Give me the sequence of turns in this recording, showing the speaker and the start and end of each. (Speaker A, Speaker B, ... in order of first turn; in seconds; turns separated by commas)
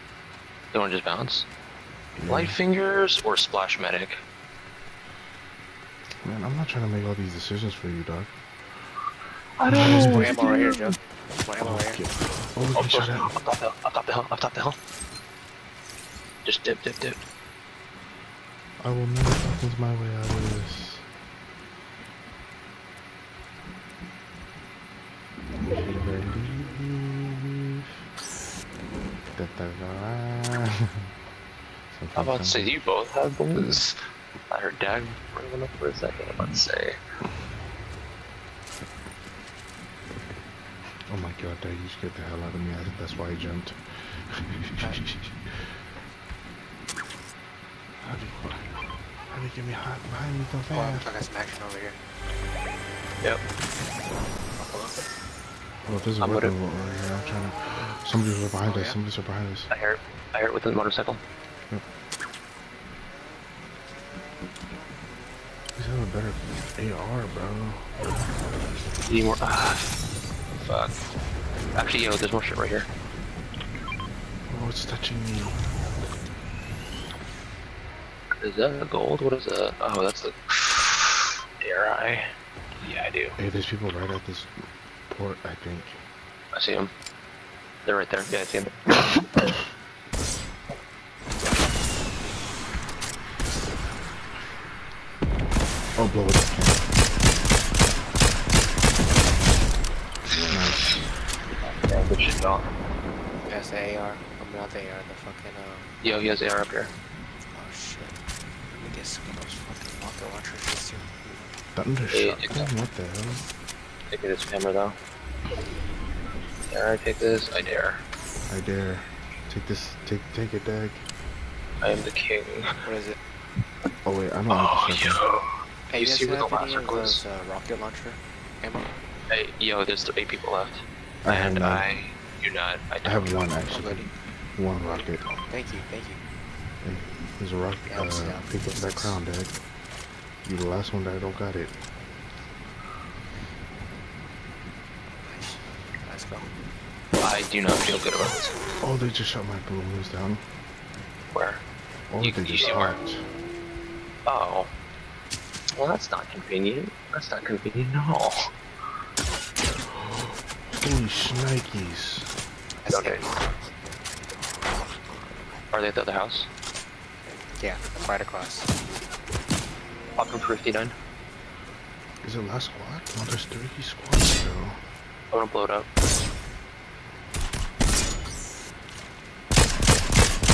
Speaker A: 0.7-1.5, Speaker B: 2.2-2.6, Speaker A: 2.3-4.2, Speaker B: 6.2-8.4, Speaker A: 9.6-11.0, Speaker B: 9.7-10.4, Speaker C: 10.0-12.0, Speaker B: 11.6-13.4, Speaker A: 12.8-14.8, Speaker A: 16.4-17.2, Speaker B: 18.8-21.1, Speaker B: 25.6-27.8, Speaker B: 29.4-30.8, Speaker B: 31.9-32.7, Speaker A: 32.1-34.0, Speaker A: 34.5-37.0, Speaker B: 41.1-45.4, Speaker B: 48.0-48.7, Speaker B: 49.3-51.2, Speaker C: 50.7-52.0, Speaker C: 54.6-55.0, Speaker B: 55.9-59.7, Speaker A: 56.2-56.5, Speaker C: 58.6-59.0, Speaker A: 59.7-61.2, Speaker B: 65.8-67.9, Speaker A: 69.1-70.0, Speaker A: 70.6-71.0, Speaker A: 71.8-72.9, Speaker B: 74.5-75.6, Speaker A: 78.4-82.2, Speaker A: 82.8-83.4, Speaker B: 83.4-84.5, Speaker B: 85.1-86.0, Speaker A: 86.5-86.9, Speaker A: 87.8-89.5, Speaker B: 96.0-96.9, Speaker B: 100.5-100.9, Speaker A: 101.6-102.7, Speaker C: 103.5-105.9, Speaker A: 106.0-106.9, Speaker C: 107.4-111.6, Speaker B: 111.7-113.5, Speaker A: 112.1-112.7, Speaker A: 114.1-115.0, Speaker A: 116.7-118.0, Speaker B: 118.5-121.1, Speaker A: 121.8-122.7, Speaker C: 122.8-123.2, Speaker B: 124.0-125.2, Speaker A: 124.5-127.2, Speaker C: 125.9-129.0, Speaker A: 129.3-133.4, Speaker B: 131.2-131.9, Speaker B: 133.0-135.2, Speaker C: 133.7-134.1, Speaker C: 134.7-136.2, Speaker B: 136.8-139.6, Speaker C: 137.9-139.2, Speaker B: 140.4-141.8, Speaker C: 145.2-146.5, Speaker A: 147.2-148.6, Speaker B: 148.8-150.4, Speaker A: 151.3-151.6, Speaker B: 152.1-153.3, Speaker A: 152.2-153.0, Speaker A: 154.3-154.7, Speaker A: 155.8-158.4, Speaker B: 160.0-162.3, Speaker C: 162.8-163.5, Speaker A: 162.9-163.2, Speaker A: 165.7-166.5, Speaker C: 167.6-168.7, Speaker A: 170.2-170.9, Speaker B: 172.2-174.8, Speaker A: 175.3-175.9